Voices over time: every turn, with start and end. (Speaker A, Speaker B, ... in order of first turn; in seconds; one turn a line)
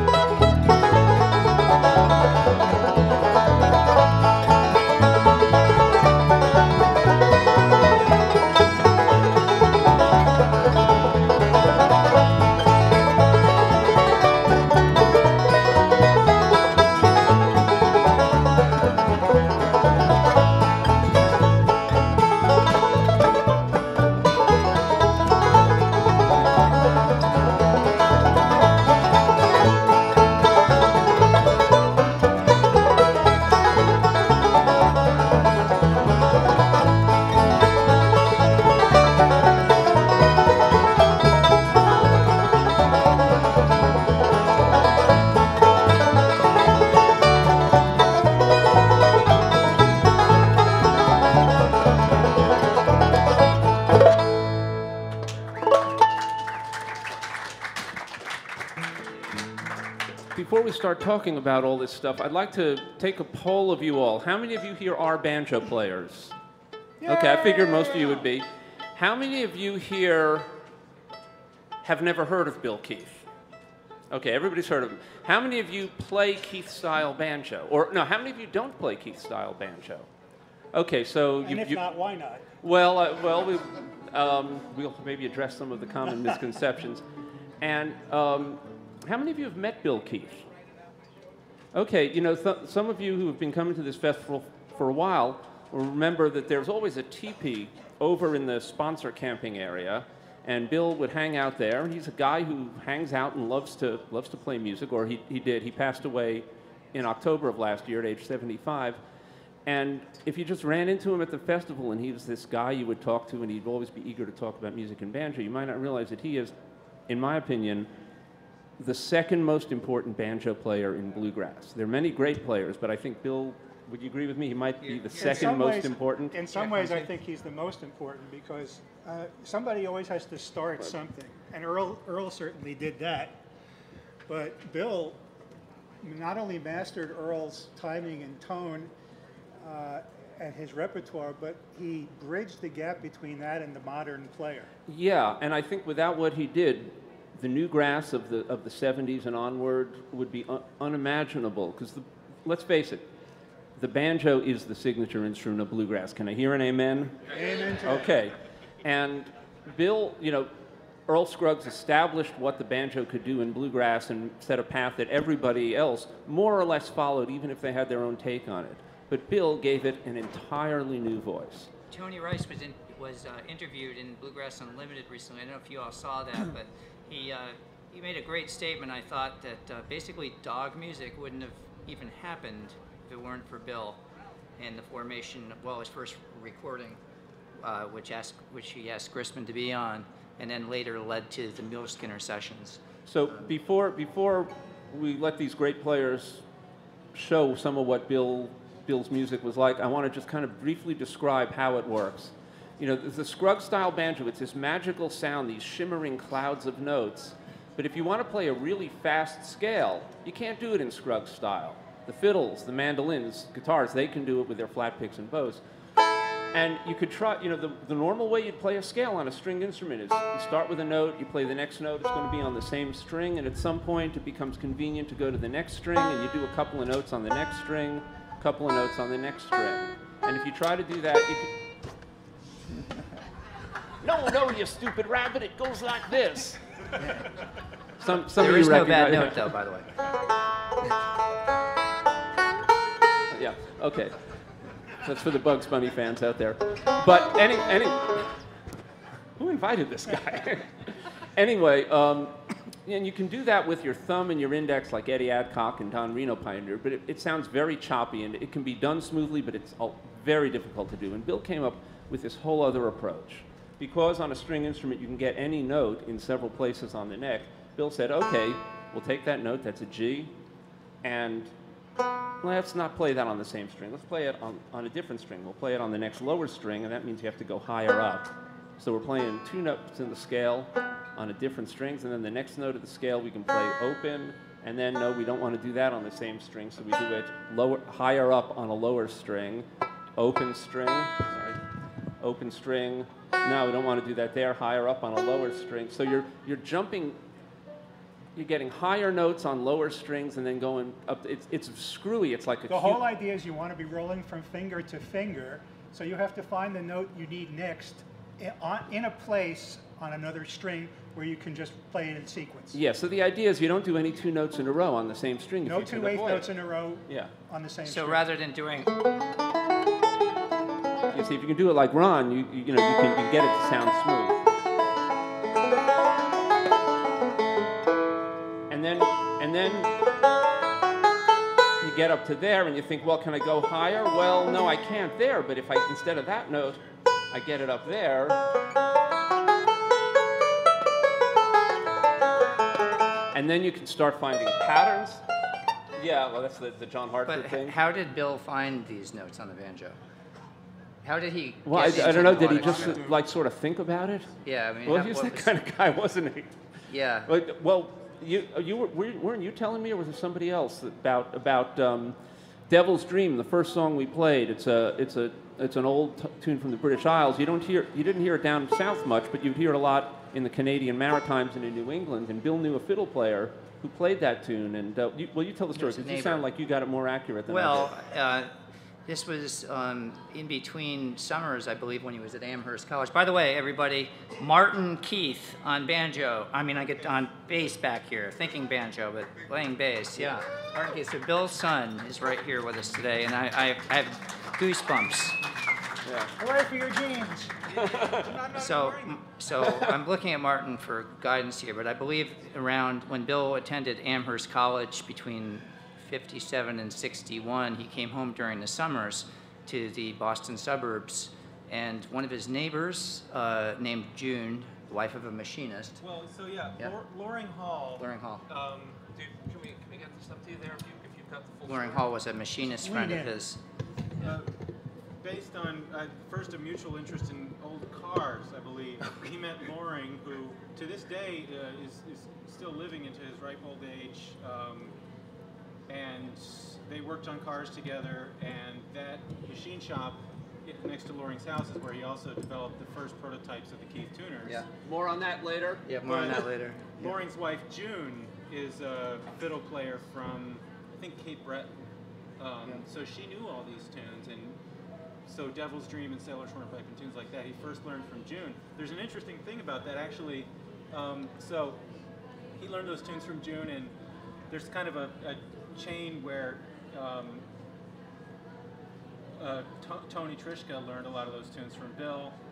Speaker A: 60.3-66.3
Speaker B: 67.0-68.1
Speaker A: 67.0-70.5
Speaker A: 71.8-73.3
Speaker A: 74.1-80.1
Speaker A: 80.7-81.8
Speaker B: 81.4-82.5
Speaker A: 82.6-87.0
Speaker A: 87.6-90.5
Speaker A: 91.7-109.0
Speaker A: 109.7-116.5
Speaker A: 117.1-117.9
Speaker A: 118.8-126.5
Speaker C: 124.8-125.4
Speaker B: 125.2-133.4
Speaker C: 126.6-127.0
Speaker B: 134.3-135.2
Speaker B: 136.0-138.9
Speaker B: 139.6-144.7
Speaker A: 144.9-153.0
Speaker A: 153.8-160.5
Speaker B: 157.3-158.1
Speaker A: 161.1-171.7
Speaker C: 171.9-184.0
Speaker C: 184.6-187.0
Speaker C: 187.6-192.8
Speaker A: 193.1-196.4
Speaker A: 197.1-215.6
Speaker A: 216.5-231.5
Speaker A: 234.0-236.6
Speaker A: 238.0-239.5
Speaker C: 238.3-239.9
Speaker A: 243.3-244.2
Speaker A: 245.0-248.3
Speaker A: 249.3-270.3
Speaker A: 271.0-271.5
Speaker A: 272.4-289.6
Speaker A: 290.2-291.6
Speaker A: 292.2-297.2
Speaker A: 298.3-303.0
Speaker B: 302.7-312.8
Speaker A: 312.7-316.5
Speaker B: 315.6-318.2
Speaker C: 317.8-318.9
Speaker A: 321.1-324.4
Speaker A: 328.7-330.0
Speaker A: 331.8-338.4
Speaker A: 343.3-345.2
Speaker A: 345.9-347.8
Speaker C: 347.2-350.0
Speaker C: 351.0-353.0
Speaker A: 351.6-356.6
Speaker B: 352.1-353.1
Speaker C: 354.4-355.6
Speaker C: 356.9-357.3
Speaker A: 357.2-362.1
Speaker A: 362.7-377.9
Speaker C: 375.8-376.4
Speaker C: 377.5-378.5
Speaker C: 379.1-395.4
Speaker A: 396.0-396.3
Speaker B: 396.4-397.6
Speaker A: 397.7-398.3
Speaker D: 398.0-399.2
Speaker C: 398.5-416.0
Speaker D: 416.0-419.0
Speaker C: 418.0-418.4
Speaker A: 419.1-422.1
Speaker C: 421.6-423.6
Speaker B: 422.8-423.4
Speaker D: 424.2-424.5
Speaker D: 425.2-434.9
Speaker D: 435.9-444.6
Speaker A: 444.8-445.9
Speaker C: 445.9-447.2
Speaker D: 446.0-451.7
Speaker D: 452.4-454.6
Speaker D: 455.2-461.8
Speaker D: 462.5-463.9
Speaker D: 464.5-467.4
Speaker D: 469.4-472.4